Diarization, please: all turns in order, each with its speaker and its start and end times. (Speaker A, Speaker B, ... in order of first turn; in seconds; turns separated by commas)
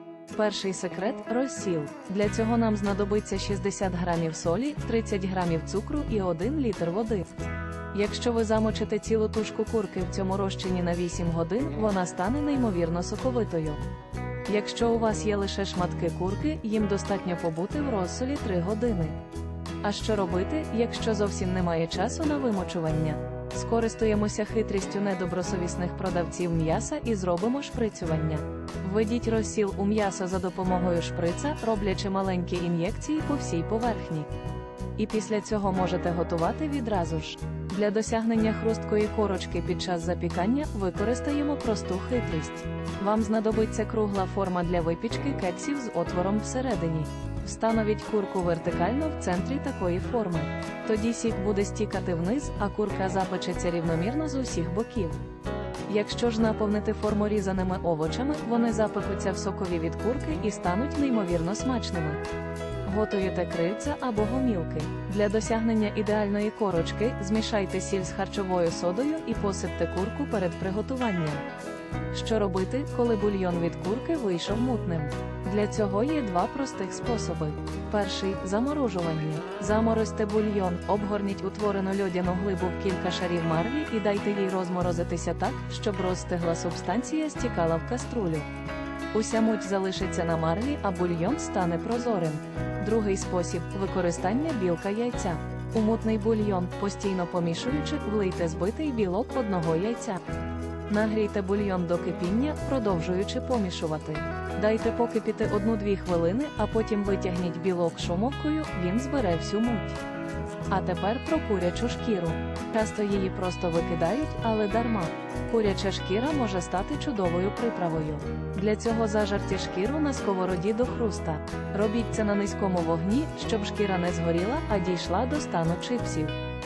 Speaker A: 0.3-7.3, Speaker A: 7.9-13.8, Speaker A: 14.5-19.2, Speaker A: 19.8-34.3, Speaker A: 35.0-55.2, Speaker A: 55.9-62.2, Speaker A: 62.9-71.5, Speaker A: 72.1-88.5, Speaker A: 89.1-100.2, Speaker A: 100.9-110.0, Speaker A: 110.7-126.3